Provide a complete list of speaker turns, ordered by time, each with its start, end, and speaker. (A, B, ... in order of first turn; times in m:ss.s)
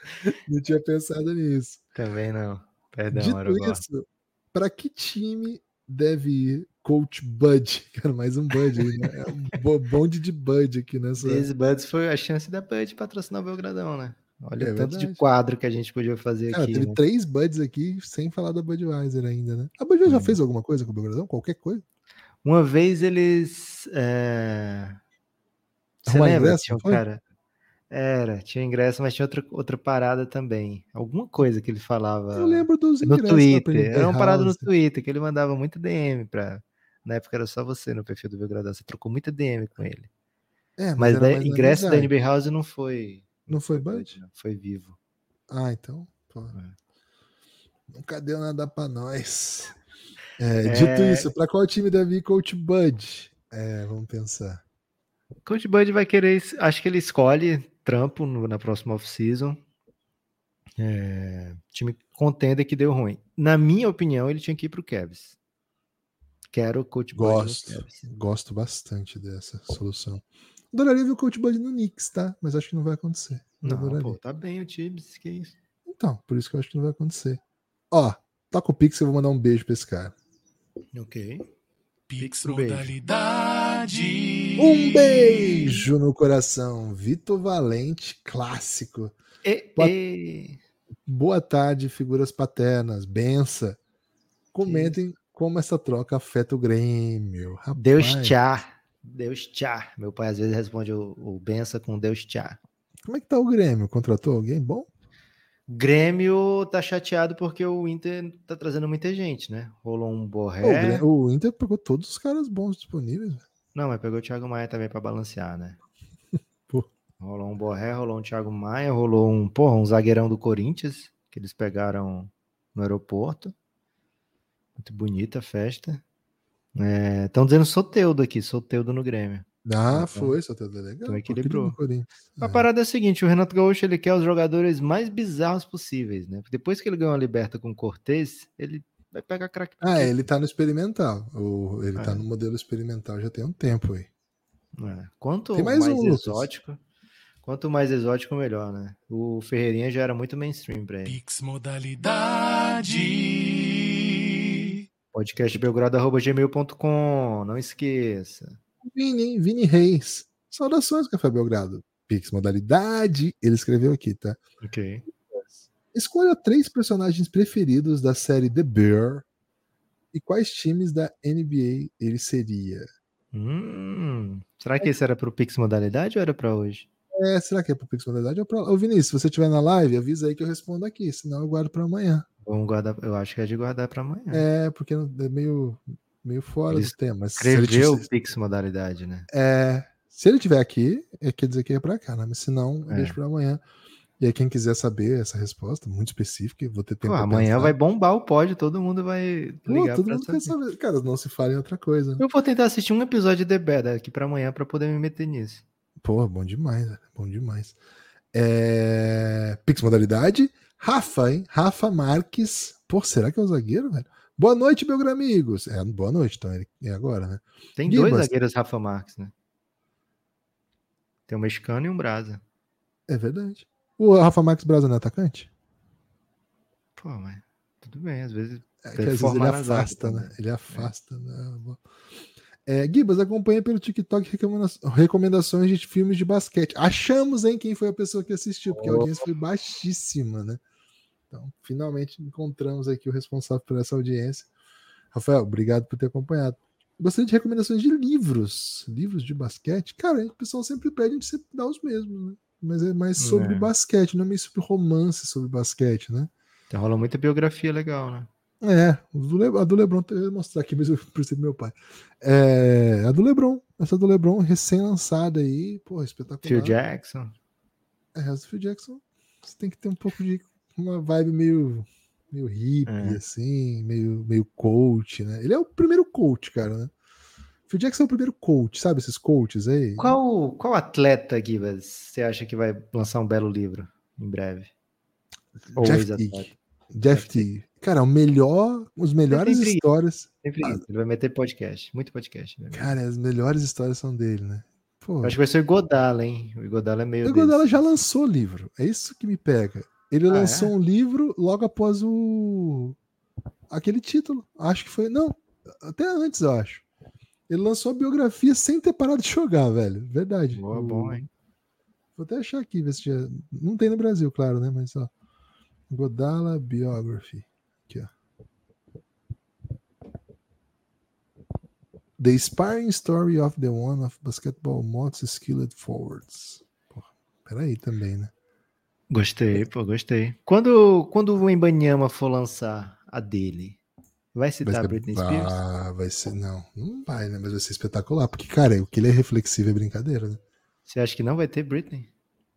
0:00.2-0:01.8 A
0:02.0-0:03.8 B
0:03.1-0:11.4 A
0:11.2-0:17.0 B
0:14.6-0:15.2 A
0:16.5-0:21.8 A
0:20.0-0:20.4 B
0:22.4-0:25.0 B
0:26.0-0:27.2 B
0:26.0-0:27.0 A
0:27.9-0:40.1 B
0:32.3-0:34.7 A
0:40.8-0:42.1 A
0:41.0-0:45.0 B
0:43.5-0:44.2 A
0:45.5-0:46.5 A
0:47.9-0:49.8 A
0:50.4-0:54.6 A
0:50.6-0:51.3 B
0:55.4-0:59.6 B
1:00.8-1:05.4 B
1:06.5-1:08.1 B
1:07.1-1:14.2 A
1:13.6-1:15.6 B
1:15.9-1:20.1 A
1:20.9-1:21.5 B
1:22.1-1:25.8 C
1:22.2-1:22.9 B
1:24.6-1:29.1 A
1:29.4-1:30.6 B
1:31.0-1:33.8 A
1:34.5-1:38.4 A
1:34.6-1:35.0 B
1:37.7-1:42.6 B
1:43.0-1:44.9 A
1:45.7-1:51.0 B
1:50.6-1:53.4 A
1:53.7-1:55.8 B
1:57.2-2:03.5 B
2:04.8-2:06.0 B
2:06.8-2:10.3 B
2:09.6-2:12.7 A
2:11.0-2:11.8 B
2:12.4-2:20.3 B
2:19.8-2:24.1 A
2:22.0-2:22.2 B
2:24.8-2:26.8 B
2:25.5-2:26.5 A
2:27.4-2:31.2 B
2:31.0-2:34.8 C
2:35.1-2:38.6 B
2:38.8-2:44.4 A
2:44.6-2:45.0 B
2:45.3-2:49.2 A
2:50.1-2:52.9 A
2:53.3-2:56.8 B
2:57.1-3:02.2 A
3:02.4-3:04.4 B
3:04.3-3:08.0 A
3:06.7-3:09.3 B
3:09.3-3:13.6 A
3:12.9-3:13.2 B
3:14.2-3:17.7 A
3:17.0-3:20.5 B
3:19.7-3:22.2 A
3:22.2-3:25.6 B
3:26.0-3:27.8 A
3:28.3-3:38.3 A
3:37.8-3:39.3 B
3:41.3-3:42.4 B
3:43.1-3:45.5 A
3:47.0-3:50.9 B
3:48.8-3:51.8 A
3:52.6-4:00.6 A
3:58.7-3:59.2 B
4:01.3-4:04.5 A
4:05.1-4:16.3 A
4:13.2-4:13.7 B
4:16.7-4:18.3 B
4:18.6-4:26.8 A
4:26.4-4:27.3 B
4:28.1-4:36.9 A
4:32.8-4:33.2 B
4:37.7-4:40.2 A
4:40.0-4:44.7 B
4:45.7-4:50.8 A
4:45.7-4:46.5 B
4:47.1-4:47.4 B
4:49.3-4:49.8 B
4:50.4-4:53.0 B
4:52.7-4:55.4 A
4:55.2-4:57.9 B
4:57.2-5:03.0 A
5:00.3-5:00.7 B
5:03.7-5:06.8 A
5:07.5-5:11.2 A
5:10.5-5:11.3 B
5:12.2-5:15.1 A
5:15.9-5:18.1 A
5:22.2-5:28.3 A
5:29.1-5:33.8 B
5:34.3-5:35.6 B
5:34.6-5:40.4 A
5:40.8-5:42.1 B